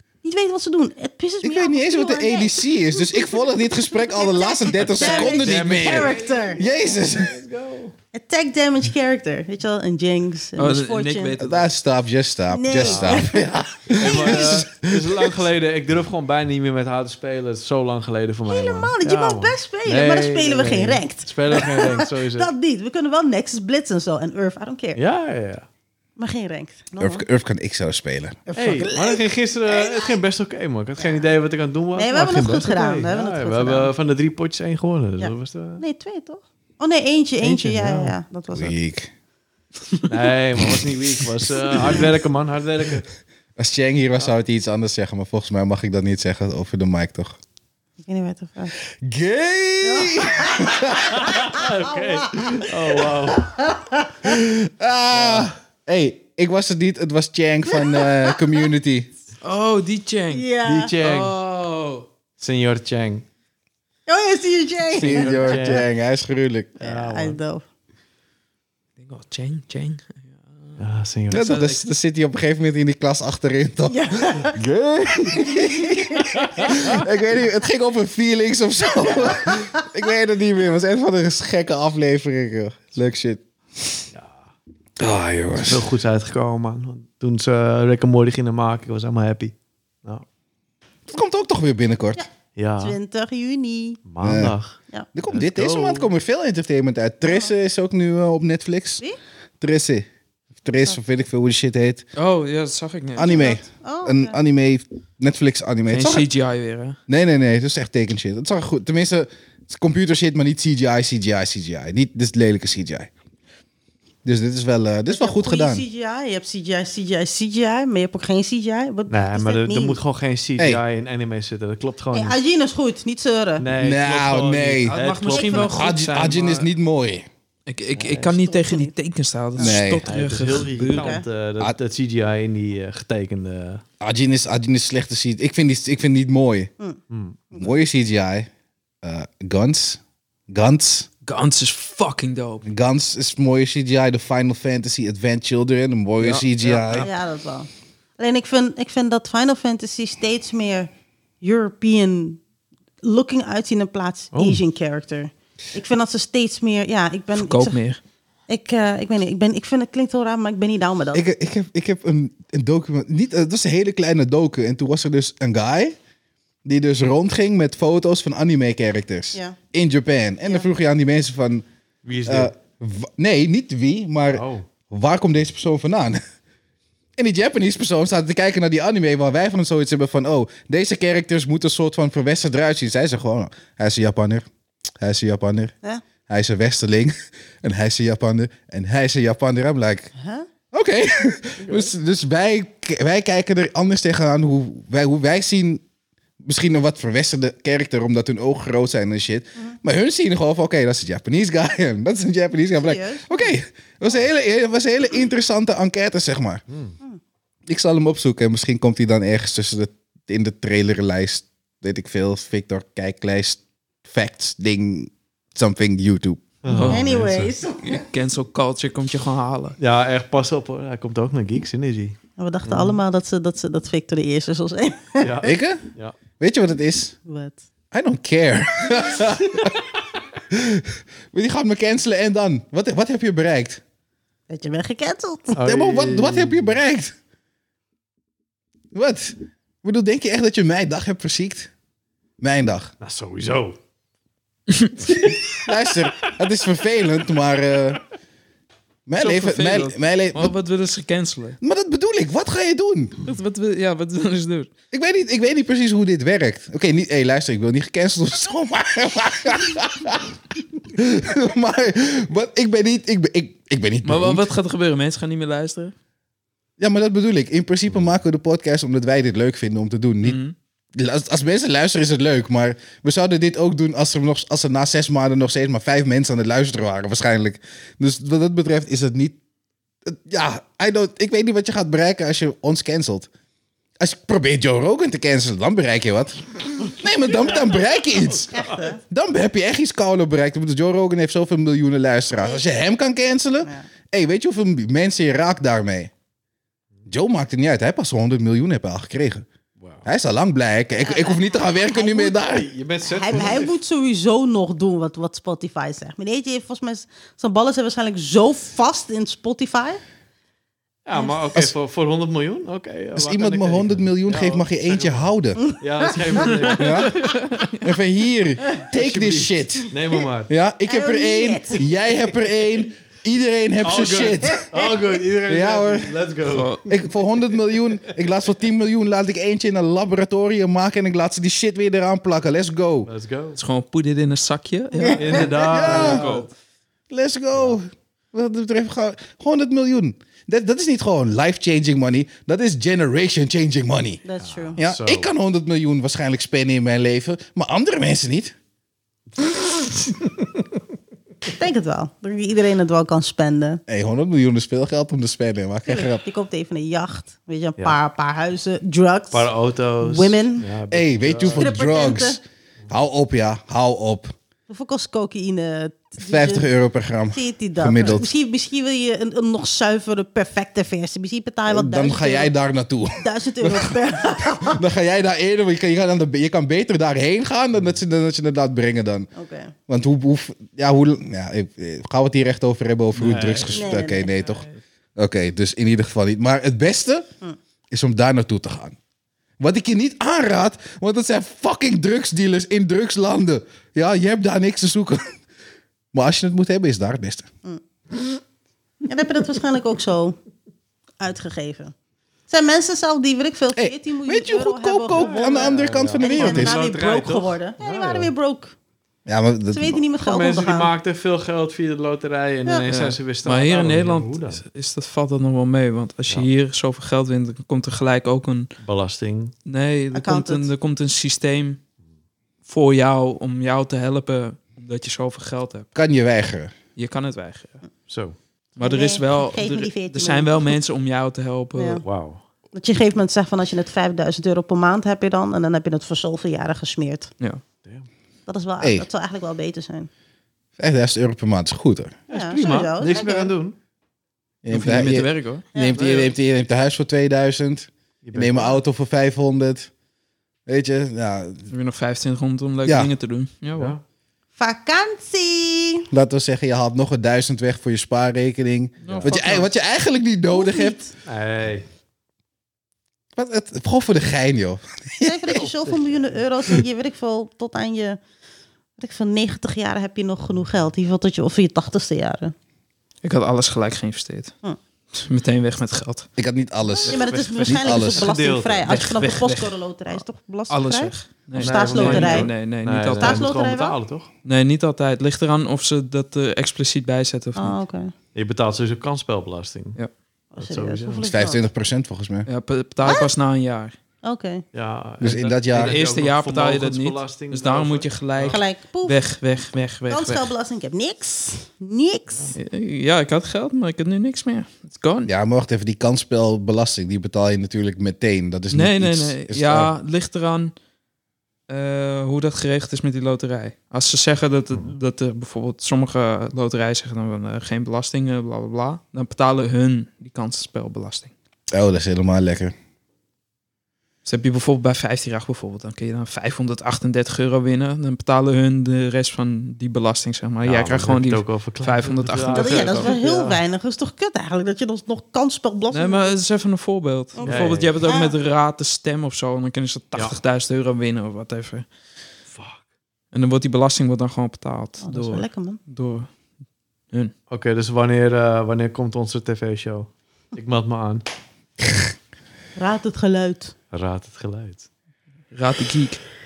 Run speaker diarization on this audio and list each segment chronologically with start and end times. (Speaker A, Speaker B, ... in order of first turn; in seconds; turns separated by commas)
Speaker A: 0.2-6.6, Speaker B: 1.4-7.3, Speaker C: 4.8-7.9, Speaker A: 8.1-11.4, Speaker D: 10.6-11.7, Speaker B: 11.4-15.4, Speaker A: 12.5-14.6, Speaker C: 12.8-13.2, Speaker C: 13.9-22.5, Speaker A: 18.5-25.0, Speaker C: 24.9-25.7, Speaker A: 26.2-27.2, Speaker B: 27.0-28.4, Speaker A: 28.5-30.2, Speaker C: 28.6-35.8, Speaker A: 31.9-33.9, Speaker A: 35.2-38.7, Speaker C: 37.4-38.1, Speaker B: 38.5-39.1, Speaker C: 40.1-43.1, Speaker B: 41.7-42.0, Speaker B: 43.6-47.4, Speaker A: 48.0-48.7, Speaker B: 49.0-51.5, Speaker A: 49.8-52.5, Speaker C: 51.2-53.6, Speaker A: 53.6-54.3, Speaker B: 54.2-59.1, Speaker C: 55.1-55.5, Speaker A: 57.7-58.6, Speaker D: 59.4-60.5, Speaker A: 60.3-60.9, Speaker C: 60.6-61.3, Speaker D: 61.0-62.1, Speaker C: 62.4-63.2, Speaker A: 64.1-65.8, Speaker C: 64.9-65.9, Speaker B: 64.9-66.8, Speaker A: 66.8-67.6, Speaker C: 66.8-67.4, Speaker D: 69.0-71.8, Speaker C: 70.8-71.5, Speaker B: 71.3-84.0, Speaker A: 73.9-74.6, Speaker A: 75.3-77.0, Speaker A: 79.1-79.8, Speaker C: 84.1-84.5, Speaker B: 85.0-85.9, Speaker C: 85.5-90.2, Speaker B: 91.1-92.2, Speaker A: 92.2-94.0, Speaker C: 92.5-93.0, Speaker C: 94.0-94.8, Speaker B: 94.2-94.5, Speaker B: 95.1-99.0, Speaker C: 95.3-96.1, Speaker A: 97.2-97.5, Speaker B: 99.6-100.1, Speaker B: 100.6-102.0, Speaker D: 102.2-103.5, Speaker B: 103.2-106.2, Speaker A: 103.3-104.4, Speaker D: 105.9-107.0, Speaker B: 107.1-113.1, Speaker B: 114.2-115.8, Speaker A: 115.1-120.0, Speaker C: 119.1-122.4, Speaker A: 122.1-123.7, Speaker C: 123.6-125.7, Speaker B: 123.8-125.0, Speaker D: 124.8-126.7, Speaker A: 125.3-125.8, Speaker B: 125.7-127.2, Speaker D: 127.7-131.2, Speaker A: 128.0-128.9, Speaker A: 129.6-129.8, Speaker B: 129.6-130.1, Speaker C: 130.1-133.8, Speaker A: 130.9-131.2, Speaker B: 134.0-136.7, Speaker C: 137.1-137.4, Speaker B: 137.5-138.5, Speaker B: 139.0-141.1, Speaker D: 141.2-142.6, Speaker B: 142.6-147.1, Speaker D: 146.2-147.1, Speaker A: 147.0-150.9, Speaker A: 151.4-152.4, Speaker A: 153.0-157.8, Speaker C: 154.3-154.6, Speaker D: 157.3-158.0, Speaker A: 158.5-161.2, Speaker B: 161.1-165.9, Speaker B: 166.6-171.7, Speaker A: 170.4-170.7, Speaker C: 172.0-172.5, Speaker B: 172.2-176.2, Speaker C: 174.3-174.7, Speaker B: 177.2-184.4, Speaker B: 185.0-185.7, Speaker B: 186.3-190.1, Speaker A: 190.2-190.5, Speaker B: 190.7-195.8, Speaker C: 191.6-191.9, Speaker B: 196.4-206.6, Speaker A: 202.8-203.6, Speaker C: 206.7-206.9, Speaker B: 207.7-216.5, Speaker C: 216.6-217.5, Speaker D: 216.7-219.8, Speaker A: 216.8-218.1, Speaker C: 219.8-223.0, Speaker A: 222.4-225.5, Speaker C: 225.2-226.2, Speaker B: 225.4-225.8, Speaker B: 226.4-227.1, Speaker A: 227.2-227.6, Speaker B: 227.9-229.8, Speaker B: 230.5-233.8, Speaker A: 234.5-235.6, Speaker C: 235.5-236.8, Speaker B: 235.6-237.1, Speaker B: 238.9-241.7, Speaker B: 242.4-242.9, Speaker C: 243.0-243.8, Speaker D: 244.7-244.9, Speaker B: 245.6-248.0, Speaker B: 249.1-250.5, Speaker D: 249.2-251.6, Speaker B: 251.6-253.2, Speaker D: 253.2-254.7, Speaker B: 254.9-264.4, Speaker D: 264.0-265.9, Speaker B: 266.8-270.4, Speaker D: 270.2-270.5, Speaker B: 270.9-279.4, Speaker B: 280.1-283.3, Speaker B: 284.0-296.1, Speaker C: 287.3-288.9, Speaker A: 288.5-289.0, Speaker B: 297.1-299.4, Speaker C: 299.8-300.1, Speaker B: 300.0-302.7, Speaker A: 301.0-302.4, Speaker C: 302.4-303.8, Speaker A: 303.0-310.0, Speaker C: 311.0-317.3, Speaker B: 313.1-315.7, Speaker A: 315.7-316.6, Speaker B: 316.7-317.2, Speaker D: 317.1-317.8, Speaker B: 317.8-319.9, Speaker C: 318.9-320.5, Speaker B: 320.5-324.7, Speaker A: 320.9-321.9, Speaker C: 323.8-326.9, Speaker B: 325.5-326.2, Speaker D: 326.4-326.9, Speaker B: 326.9-333.1, Speaker C: 333.1-333.6, Speaker D: 333.6-336.5, Speaker A: 334.9-335.6, Speaker C: 335.1-336.5, Speaker B: 335.6-336.3, Speaker B: 337.1-344.2, Speaker A: 344.2-344.8, Speaker C: 344.4-345.3, Speaker B: 344.8-348.5, Speaker C: 350.0-350.5, Speaker A: 351.5-353.8, Speaker B: 353.9-356.2, Speaker A: 355.9-360.7, Speaker C: 359.3-362.2, Speaker B: 360.9-364.3, Speaker A: 361.4-362.4, Speaker A: 364.7-366.7, Speaker B: 366.2-368.3, Speaker A: 367.3-372.5, Speaker B: 371.7-379.3, Speaker A: 373.2-374.8, Speaker A: 379.4-379.7, Speaker B: 379.9-387.3, Speaker C: 383.1-383.9, Speaker A: 383.7-384.3, Speaker D: 384.4-384.7, Speaker B: 387.9-389.0, Speaker B: 389.6-395.4, Speaker B: 396.1-397.5, Speaker A: 399.0-400.4, Speaker A: 401.2-401.9, Speaker A: 402.5-408.7, Speaker B: 403.8-406.8, Speaker C: 405.1-408.3, Speaker B: 409.2-410.0, Speaker A: 409.7-410.9, Speaker C: 410.2-414.6, Speaker D: 412.9-418.7, Speaker C: 418.8-419.5, Speaker D: 419.6-421.8, Speaker A: 420.1-420.7, Speaker D: 422.6-425.9, Speaker B: 425.9-426.7, Speaker D: 426.9-427.8, Speaker C: 428.1-428.4, Speaker D: 428.8-432.0, Speaker A: 428.8-430.7, Speaker A: 431.7-432.0, Speaker C: 432.0-432.4, Speaker A: 432.7-437.3, Speaker A: 438.5-440.1, Speaker B: 438.8-439.1, Speaker B: 440.8-442.2, Speaker C: 442.3-443.8, Speaker A: 442.3-443.5, Speaker B: 444.6-449.9, Speaker D: 444.7-445.7, Speaker A: 445.7-446.3, Speaker C: 448.2-448.8, Speaker B: 450.6-451.7, Speaker D: 451.7-453.9, Speaker B: 452.8-453.1, Speaker A: 454.6-456.1, Speaker B: 456.1-461.0, Speaker D: 459.0-459.7, Speaker C: 459.0-459.4, Speaker A: 460.5-461.1, Speaker C: 461.2-461.8, Speaker B: 463.4-465.6, Speaker A: 465.2-468.2, Speaker C: 465.5-466.4, Speaker A: 469.0-472.5, Speaker D: 473.2-474.5, Speaker D: 475.1-476.3, Speaker B: 476.4-478.3, Speaker A: 476.9-482.5, Speaker C: 477.1-479.2, Speaker D: 478.9-483.5, Speaker C: 481.6-484.3, Speaker A: 483.2-484.0, Speaker D: 484.4-487.8, Speaker A: 487.6-488.1, Speaker C: 488.3-490.0, Speaker A: 490.5-491.6, Speaker C: 490.6-491.3, Speaker B: 491.2-492.5, Speaker D: 492.5-493.9, Speaker A: 493.0-493.3, Speaker A: 494.2-494.6, Speaker C: 494.7-498.6, Speaker B: 495.2-496.0, Speaker D: 495.7-500.5, Speaker A: 498.5-499.2, Speaker A: 500.1-502.5, Speaker D: 502.6-505.3, Speaker B: 505.2-509.9, Speaker D: 508.7-510.7, Speaker D: 511.7-521.3, Speaker B: 521.7-522.7, Speaker D: 524.2-533.1, Speaker C: 530.6-533.6, Speaker A: 532.5-536.3, Speaker D: 535.9-541.9, Speaker A: 537.4-538.4, Speaker C: 537.4-538.0, Speaker C: 542.5-542.8, Speaker D: 543.3-546.3, Speaker A: 545.0-545.8, Speaker C: 547.5-551.2, Speaker A: 552.8-553.7, Speaker C: 553.9-554.8, Speaker D: 555.5-556.2